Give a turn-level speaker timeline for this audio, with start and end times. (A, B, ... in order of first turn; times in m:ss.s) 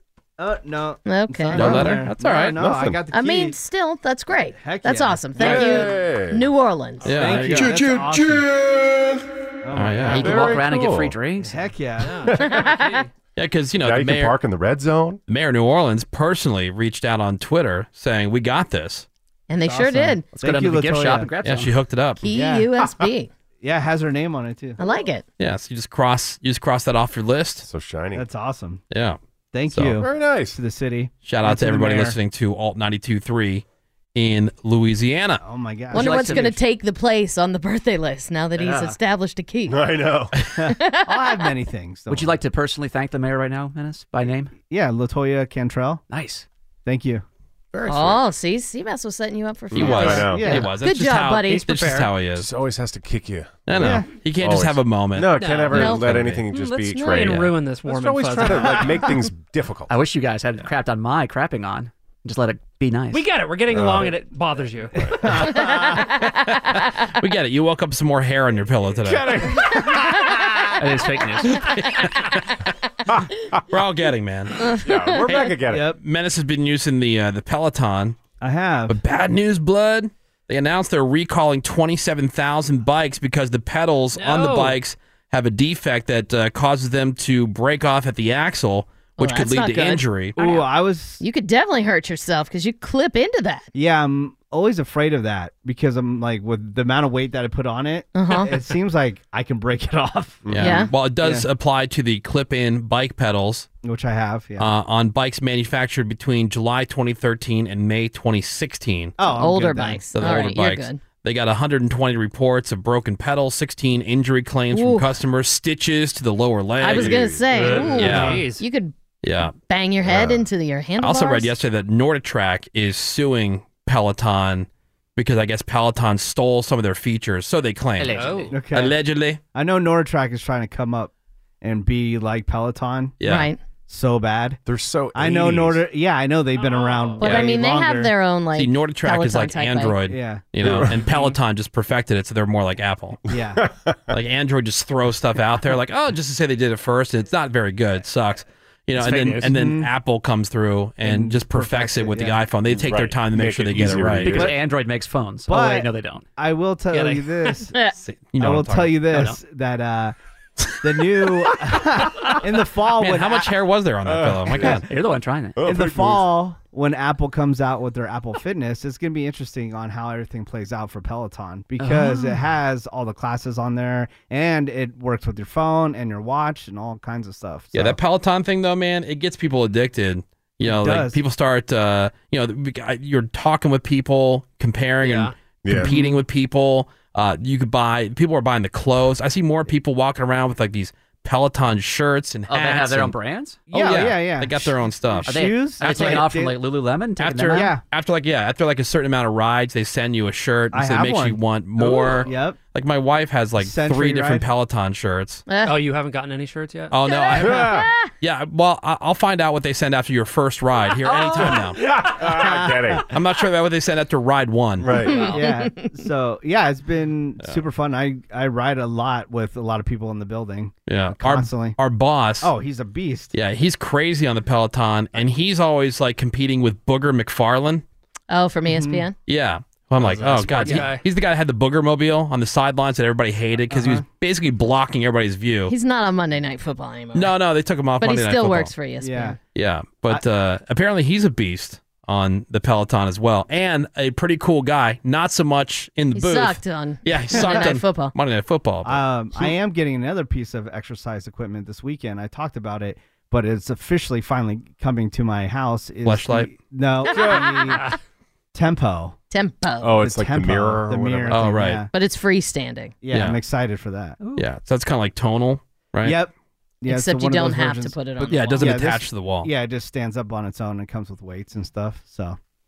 0:00.4-0:03.6 A
0:01.0-0:01.9 B
0:01.5-0:02.6 C
0:01.6-0:02.0 D
0:02.6-0:03.0 D
0:03.1-0:07.2 B
0:04.5-0:05.8 A
0:05.4-0:06.5 D
0:05.4-0:05.7 C
0:07.0-0:07.7 C
0:07.0-0:08.5 A
0:09.6-0:10.6 A
0:09.7-0:10.4 C
0:10.1-0:11.6 E
0:10.1-0:11.2 D
0:11.4-0:12.4 A
0:12.0-0:13.1 F
0:12.4-0:13.0 B
0:13.4-0:14.4 C
0:13.8-0:15.2 D
0:15.3-0:19.0 C
0:19.5-0:20.2 B
0:19.6-0:21.3 A
0:20.4-0:21.8 E
0:21.4-0:22.2 C
0:22.2-0:23.3 B
0:22.2-0:22.7 A
0:23.6-0:24.8 A
0:24.8-0:25.2 B
0:25.4-0:27.7 C
0:27.6-0:28.2 D
0:28.1-0:28.8 A
0:28.9-0:29.2 C
0:29.5-0:32.2 A
0:29.8-0:30.6 D
0:31.2-0:33.6 C
0:34.1-0:35.4 C
0:35.4-0:36.6 A
0:35.9-0:36.5 E
0:35.9-0:39.8 B
0:38.6-0:38.9 A
0:39.7-0:40.3 D
0:40.5-0:42.4 A
0:40.7-0:41.5 B
0:42.1-0:44.5 E
0:44.7-0:46.0 A
0:46.1-0:46.4 E
0:46.8-0:47.2 A
0:47.8-0:48.2 E
0:47.9-0:51.9 B
0:49.7-0:50.6 D
0:49.7-0:52.5 C
0:50.1-0:50.7 A
0:51.7-0:52.0 F
0:52.3-0:59.9 D
0:53.7-0:56.4 C
0:53.8-0:54.1 A
0:55.4-0:55.9 F
0:55.7-0:56.1 B
0:56.5-0:59.1 F
0:56.9-0:57.2 B
0:59.9-1:03.2 E
1:03.1-1:05.1 F
1:03.7-1:04.2 D
1:05.0-1:06.0 A
1:05.4-1:06.3 B
1:06.5-1:09.6 C
1:09.0-1:10.7 D
1:10.8-1:11.7 E
1:11.6-1:12.4 C
1:13.1-1:13.6 D
1:13.7-1:14.6 C
1:14.6-1:15.3 B
1:14.8-1:15.9 D
1:15.2-1:18.2 C
1:15.7-1:16.0 A
1:18.4-1:19.0 A
1:18.9-1:30.3 C
1:24.1-1:24.8 F
1:29.2-1:30.0 B
1:30.4-1:31.2 A
1:30.4-1:30.6 F
1:31.2-1:33.7 B
1:33.7-1:40.5 A
1:38.1-1:38.5 B
1:40.4-1:40.8 D
1:40.5-1:43.7 C
1:40.6-1:40.9 B
1:41.2-1:41.4 A
1:43.8-1:44.7 A
1:44.6-1:49.2 C
1:49.2-1:50.0 A
1:49.2-1:51.0 B
1:50.1-1:58.4 C
1:54.7-1:55.1 B
1:56.8-1:58.4 D
1:56.8-1:58.9 B
1:57.5-1:58.6 F
1:59.2-1:59.5 C
1:59.5-2:01.5 B
2:00.0-2:00.5 D
2:01.0-2:09.4 C
2:08.0-2:08.5 E
2:08.1-2:08.5 F
2:08.5-2:08.9 A
2:09.5-2:13.1 A
2:13.2-2:13.5 C
2:13.2-2:13.6 B
2:13.9-2:14.6 A
2:14.6-2:15.8 D
2:15.1-2:18.1 A
2:16.6-2:17.4 F
2:17.2-2:20.0 B
2:17.2-2:17.5 C
2:18.5-2:23.2 C
2:20.1-2:20.4 A
2:20.6-2:21.0 D
2:23.3-2:23.6 A
2:23.6-2:24.2 D
2:24.1-2:34.4 C
2:29.0-2:29.5 E
2:29.4-2:29.9 A
2:31.0-2:32.4 A
2:32.7-2:34.5 D
2:34.2-2:36.2 E
2:35.5-2:37.8 A
2:36.9-2:37.6 F
2:38.0-2:39.0 C
2:38.4-2:40.1 A
2:39.1-2:39.4 E
2:40.8-2:43.5 A
2:42.9-2:44.8 C
2:44.0-2:44.8 D
2:44.6-2:45.6 E
2:45.6-2:46.2 D
2:45.6-2:58.0 A
2:51.8-2:52.4 E
2:57.7-3:13.2 C
3:00.6-3:01.2 A
3:05.0-3:05.3 F
3:05.6-3:05.9 D
3:05.8-3:06.2 A
3:12.5-3:14.1 E
3:13.7-3:16.2 C
3:13.7-3:16.6 A
3:15.2-3:17.8 E
3:17.2-3:25.4 C
3:17.5-3:17.8 A
3:20.7-3:22.6 A
3:23.6-3:24.4 A
3:25.5-3:25.8 B
3:25.6-3:27.0 F
3:26.9-3:31.8 C
3:27.0-3:28.1 B
3:27.3-3:27.9 D
3:31.0-3:31.6 E
3:31.5-3:33.1 D
3:32.2-3:33.0 A
3:33.1-3:35.0 C
3:34.8-3:35.3 D
3:35.0-3:35.8 B
3:35.0-3:35.4 F
3:35.1-3:41.8 A
3:40.9-3:42.5 C
3:42.4-3:43.3 A
3:43.3-3:47.8 C
3:48.3-3:49.2 B
3:48.7-3:49.1 A
3:49.3-3:55.7 C
3:50.0-3:51.0 F
3:53.7-3:54.0 A
3:55.7-3:57.3 B
3:57.1-3:58.7 C
3:58.0-3:59.4 B
3:59.0-3:59.4 A
3:59.5-4:09.0 C
4:06.1-4:08.1 B
4:07.3-4:07.7 A
4:08.8-4:17.9 A
4:16.0-4:16.5 C
4:17.0-4:17.9 B
4:17.1-4:17.4 D
4:18.5-4:19.2 A
4:19.3-4:20.0 B
4:19.8-4:21.4 D
4:20.0-4:21.9 A
4:21.3-4:21.8 C
4:21.9-4:23.0 B
4:23.0-4:24.2 A
4:23.1-4:23.4 C
4:24.4-4:26.2 C
4:26.0-4:32.4 A
4:26.9-4:28.8 B
4:28.2-4:29.5 C